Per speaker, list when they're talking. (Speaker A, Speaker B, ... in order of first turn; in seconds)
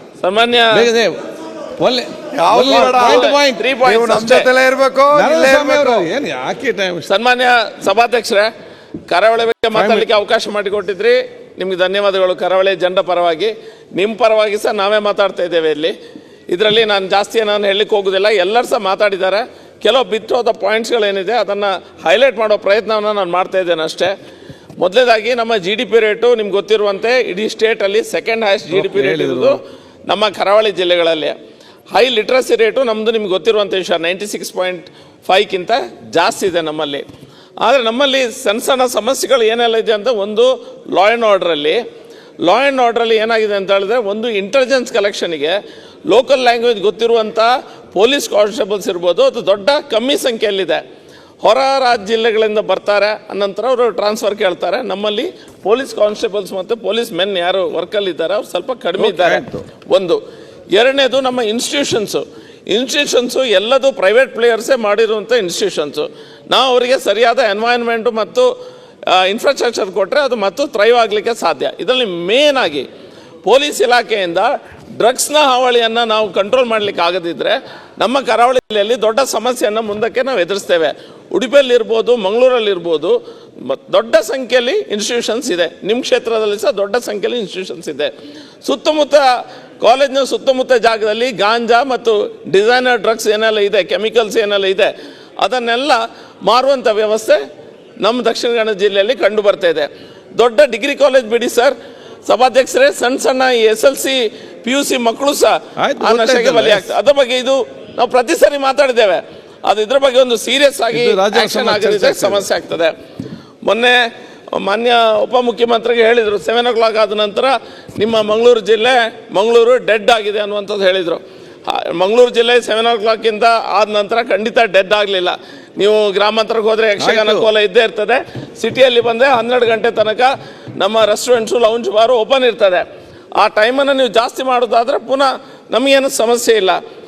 Speaker A: 0.2-0.8, 2.7-4.5, 7.0-8.5, 9.1-15.9, 16.5-24.1, 24.8-31.3, 31.9-37.0, 37.6-41.8, 42.4-45.6, 46.1-50.8, 51.4-60.2, 60.8-68.5, 69.1-72.9, 73.4-88.1, 88.6-89.2, 89.8-97.4, 98.0-101.8, 102.3-112.9, 113.7-114.0, 114.6-132.8, 133.4-136.8
Speaker B: 0.7-1.2, 1.8-3.7, 5.1-7.1, 9.7-10.1, 28.7-29.6, 59.0-59.6, 105.8-106.9, 110.9-112.5, 127.0-127.5
Speaker C: 2.3-3.3, 3.8-6.1